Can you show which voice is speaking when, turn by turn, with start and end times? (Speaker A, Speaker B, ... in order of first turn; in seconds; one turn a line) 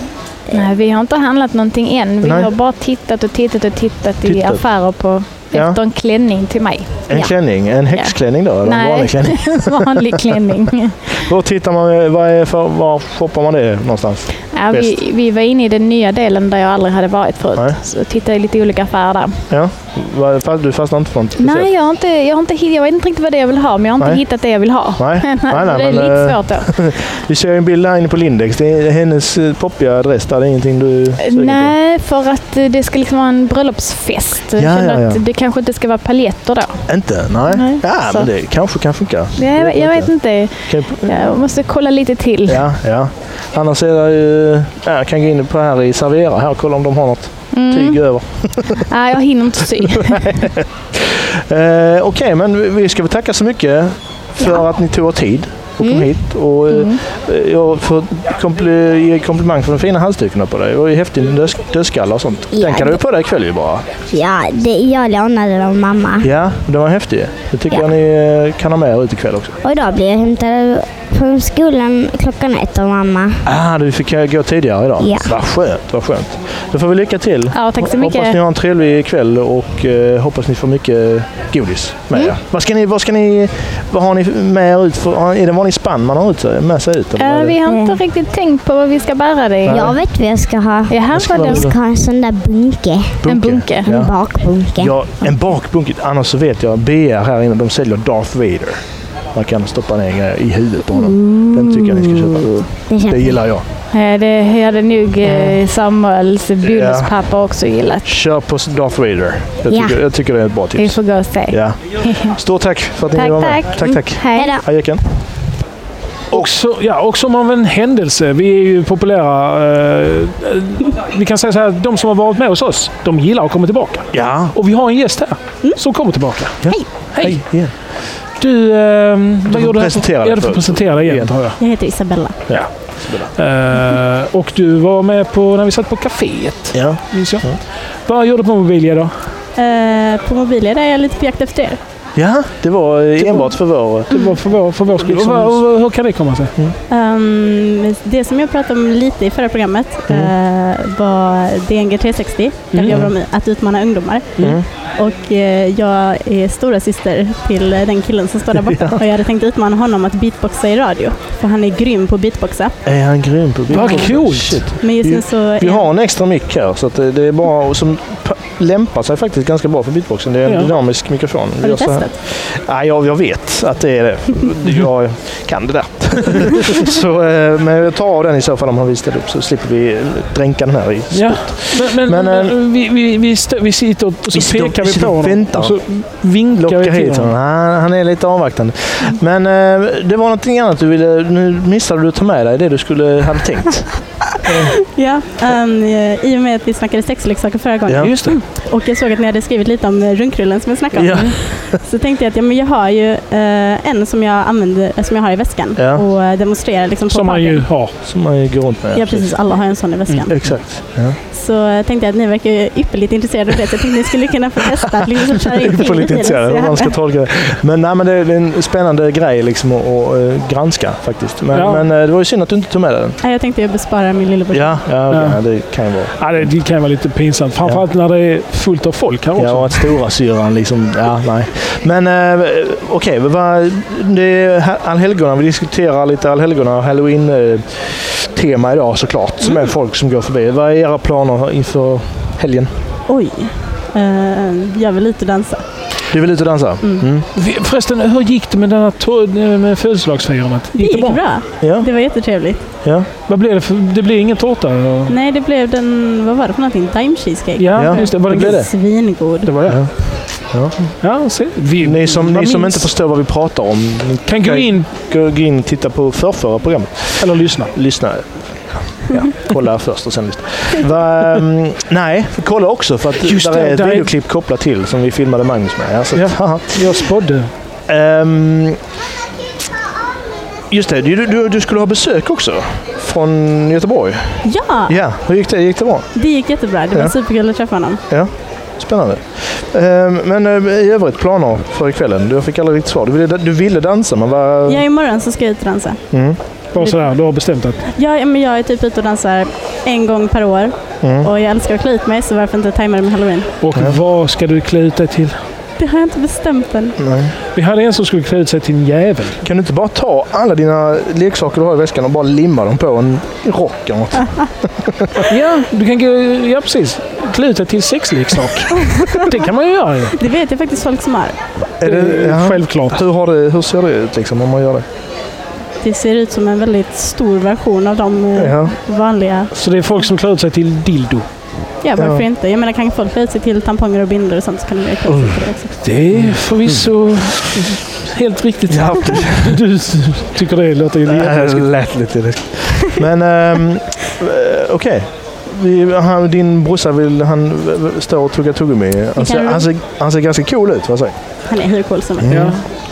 Speaker A: 0.5-7.3
Speaker B: 2.2-2.5
Speaker B: 4.2-4.7
Speaker B: 5.5-5.8
Speaker B: 7.1-10.2
Speaker A: 7.9-10.9
Speaker B: 11.2-14.9
Speaker A: 14.5-19.4
Speaker B: 19.5-21.7
Speaker A: 21.4-26.8
Speaker B: 24.0-24.2
Speaker B: 24.9-31.8
Speaker A: 31.2-36.9
Speaker B: 34.6-35.2
Speaker B: 36.9-41.4
Speaker A: 37.5-38.3
Speaker A: 39.4-42.7
Speaker B: 42.5-48.9
Speaker A: 47.5-50.5
Speaker B: 49.9-63.8
Speaker C: 55.8-56.1
Speaker A: 56.7-57.0
Speaker C: 62.5-63.0
Speaker C: 64.1-66.3
Speaker B: 66.2-69.6
Speaker C: 69.6-73.4
Speaker B: 73.4-87.6
Speaker C: 75.0-75.3
Speaker A: 77.5-78.4
Speaker A: 87.2-89.9
Speaker B: 89.7-90.0
Speaker C: 89.7-93.2
Speaker A: 90.9-91.7
Speaker B: 91.1-91.8
Speaker B: 93.2-98.8
Speaker A: 93.2-93.9
Speaker C: 93.8-94.9
Speaker B: 99.3-103.6
Speaker A: 100.9-102.4
Speaker C: 102.9-103.4
Speaker A: 103.9-108.1
Speaker B: 105.2-105.6
Speaker B: 106.6-107.2
Speaker B: 108.0-115.0
Speaker C: 109.7-110.0
Speaker A: 110.8-112.3
Speaker A: 113.1-114.6
Speaker C: 114.3-114.6
Speaker D: 116.3-127.5
Speaker B: 124.1-124.5
Speaker B: 126.6-127.7
Speaker E: 126.7-126.9
Speaker D: 128.4-131.6
Speaker B: 129.5-131.3
Speaker E: 131.6-132.4
Speaker B: 132.5-133.3
Speaker D: 132.5-139.3
Speaker B: 136.7-137.6
Speaker E: 139.6-141.8
Speaker B: 142.2-144.1
Speaker D: 144.1-146.5
Speaker B: 145.0-145.7
Speaker E: 146.9-162.8
Speaker D: 152.7-153.1
Speaker B: 154.4-154.7
Speaker B: 158.6-159.0
Speaker B: 162.8-182.5
Speaker D: 163.7-164.7
Speaker E: 163.8-164.1
Speaker E: 164.8-165.9
Speaker D: 170.5-170.7
Speaker E: 171.6-172.2
Speaker D: 181.1-187.3
Speaker B: 184.3-185.8
Speaker B: 186.6-194.8
Speaker E: 194.9-207.7
Speaker B: 197.8-198.4
Speaker B: 200.9-201.8
Speaker B: 205.8-206.0
Speaker D: 207.1-207.9
Speaker B: 208.0-209.3
Speaker E: 208.9-210.3
Speaker D: 210.1-210.5
Speaker B: 210.2-211.2
Speaker E: 211.3-216.9
Speaker B: 215.5-223.2
Speaker D: 221.5-221.8
Speaker E: 223.2-225.0
Speaker B: 224.5-226.5
Speaker D: 225.1-225.7
Speaker D: 226.2-230.0
Speaker B: 229.3-242.7
Speaker E: 243.1-245.6
Speaker B: 246.1-247.3
Speaker D: 247.3-251.2
Speaker E: 250.8-252.6
Speaker B: 251.6-251.9
Speaker D: 253.3-255.2
Speaker E: 255.1-259.5
Speaker D: 257.6-258.7
Speaker B: 257.8-258.7
Speaker D: 259.4-259.9
Speaker B: 259.6-261.0
Speaker D: 261.0-262.9
Speaker B: 261.8-277.0
Speaker D: 264.2-264.9
Speaker D: 267.2-267.7
Speaker D: 273.2-274.1
Speaker D: 276.1-277.5
Speaker B: 277.9-278.8
Speaker B: 280.7-286.1
Speaker E: 284.4-284.9
Speaker E: 286.1-288.0
Speaker B: 288.1-294.8
Speaker E: 294.7-296.1
Speaker B: 296.1-296.4
Speaker D: 296.7-297.8
Speaker E: 296.8-297.1
Speaker E: 297.9-303.5
Speaker B: 301.0-301.3
Speaker D: 303.6-305.4
Speaker E: 305.8-307.0
Speaker B: 307.0-307.3
Speaker D: 307.5-309.4
Speaker B: 309.4-315.2
Speaker E: 314.2-314.4
Speaker D: 315.3-320.1
Speaker E: 318.8-319.4
Speaker E: 320.1-321.4
Speaker B: 321.8-324.9
Speaker D: 321.8-323.0
Speaker E: 325.8-329.5
Speaker B: 328.4-328.7
Speaker D: 329.5-331.3
Speaker E: 331.8-335.8
Speaker B: 332.0-332.2
Speaker B: 335.1-335.4
Speaker D: 335.8-341.7
Speaker B: 336.1-336.8
Speaker B: 338.7-339.5
Speaker B: 341.1-351.1
Speaker E: 349.2-349.7
Speaker E: 351.5-352.5
Speaker B: 352.2-352.6
Speaker D: 352.3-352.6